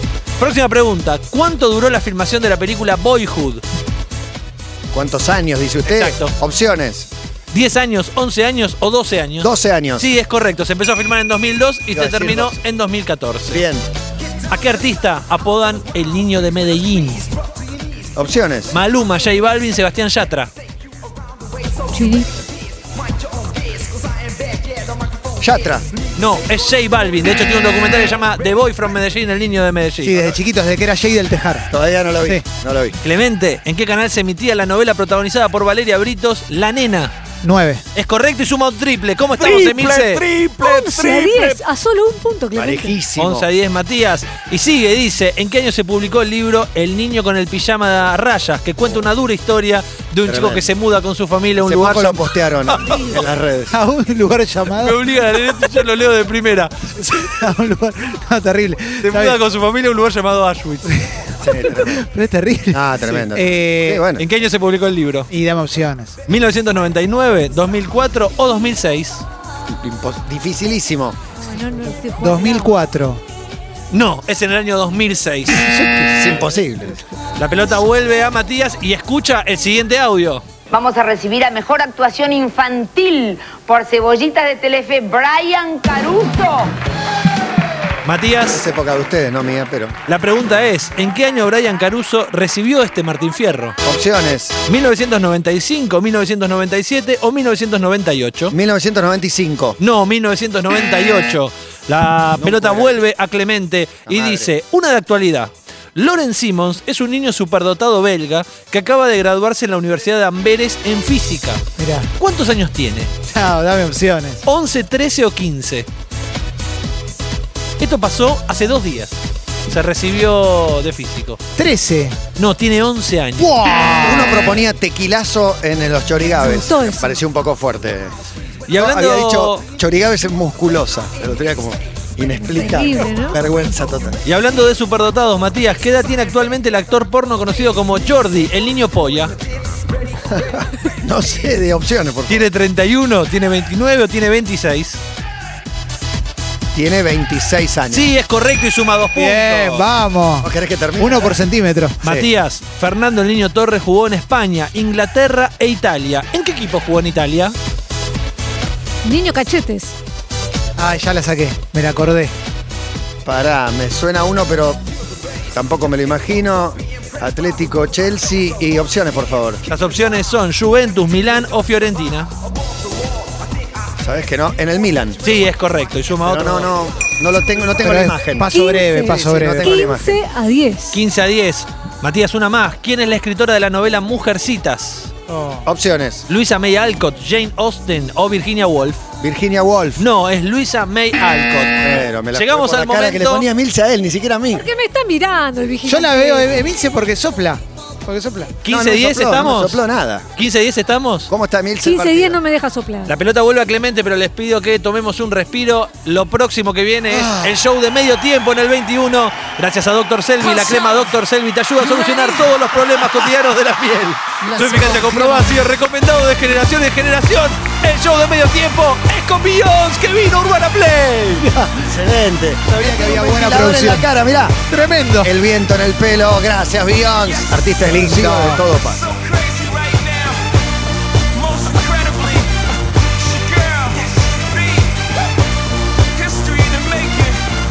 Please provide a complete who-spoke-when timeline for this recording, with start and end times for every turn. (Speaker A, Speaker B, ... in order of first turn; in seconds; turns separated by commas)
Speaker A: 0.4-3.6, Speaker B: 4.9-7.1, Speaker A: 5.8-6.3, Speaker A: 7.5-13.6, Speaker B: 9.4-10.1, Speaker B: 11.9-12.6, Speaker B: 13.5-13.9, Speaker A: 14.5-17.3, Speaker B: 18.1-18.8, Speaker A: 18.7-20.5, Speaker C: 21.9-22.3, Speaker B: 25.4-25.9, Speaker A: 26.2-30.3, Speaker D: 30.0-31.7, Speaker B: 31.7-33.0, Speaker A: 33.0-37.1, Speaker D: 37.4-37.8, Speaker A: 38.0-40.3, Speaker E: 39.4-41.6, Speaker C: 40.6-43.0, Speaker B: 42.5-43.5, Speaker A: 43.2-53.2, Speaker B: 50.3-50.7, Speaker B: 51.6-53.8, Speaker D: 53.7-55.0, Speaker A: 54.8-56.8, Speaker D: 57.0-59.4, Speaker A: 59.0-61.0, Speaker D: 60.9-64.0, Speaker B: 61.4-62.0, Speaker B: 62.7-64.2, Speaker A: 64.2-65.3, Speaker D: 65.3-66.2, Speaker A: 66.3-69.2, Speaker B: 69.7-71.2, Speaker C: 71.4-72.8, Speaker D: 72.2-73.2, Speaker A: 73.9-75.7, Speaker B: 76.0-77.0, Speaker A: 77.4-80.5, Speaker F: 80.7-86.7, Speaker A: 88.0-88.7, Speaker B: 88.5-89.9, Speaker A: 90.1-93.8, Speaker B: 93.8-94.6, Speaker A: 94.7-98.5, Speaker B: 98.5-99.8, Speaker A: 99.8-111.6, Speaker B: 102.4-103.0, Speaker B: 104.1-104.5, Speaker D: 111.8-112.1, Speaker A: 112.2-113.1, Speaker D: 113.3-114.4, Speaker A: 114.4-115.9, Speaker A: 117.8-121.4, Speaker D: 121.6-122.2, Speaker A: 122.4-123.5, Speaker D: 123.4-124.5, Speaker B: 124.0-128.1, Speaker C: 126.4-127.1, Speaker A: 128.7-129.7, Speaker B: 128.8-134.2, Speaker C: 132.6-133.4, Speaker A: 134.2-139.3, Speaker B: 140.3-142.5, Speaker A: 142.3-145.0, Speaker B: 146.7-148.1, Speaker A: 147.9-149.8, Speaker D: 149.2-152.0, Speaker B: 150.4-151.4, Speaker A: 152.0-157.6, Speaker B: 152.0-152.3, Speaker C: 159.0-159.9, Speaker D: 160.8-162.3, Speaker B: 163.2-164.8, Speaker B: 165.5-169.6, Speaker A: 169.7-172.3, Speaker B: 174.0-175.2, Speaker A: 175.2-176.7, Speaker B: 176.2-180.2, Speaker D: 177.8-179.7, Speaker C: 178.5-181.0, Speaker A: 180.9-185.1, Speaker D: 185.3-185.7, Speaker B: 185.7-186.3, Speaker A: 186.3-189.0, Speaker B: 189.2-190.1, Speaker A: 190.0-193.5, Speaker B: 191.8-194.7, Speaker C: 194.5-196.6, Speaker D: 195.8-198.5, Speaker A: 198.6-199.8, Speaker B: 198.7-200.3, Speaker A: 200.3-201.3, Speaker B: 201.3-202.4, Speaker C: 201.8-203.1, Speaker A: 203.1-221.5, Speaker D: 207.1-207.6, Speaker C: 210.4-211.0, Speaker C: 211.8-212.5, Speaker B: 214.4-215.5, Speaker B: 221.8-224.6, Speaker D: 222.7-224.1, Speaker D: 224.7-225.3, Speaker B: 225.2-229.1, Speaker D: 227.9-228.6, Speaker E: 229.2-230.4, Speaker E: 231.5-232.5, Speaker E: 233.3-234.9, Speaker E: 236.2-237.3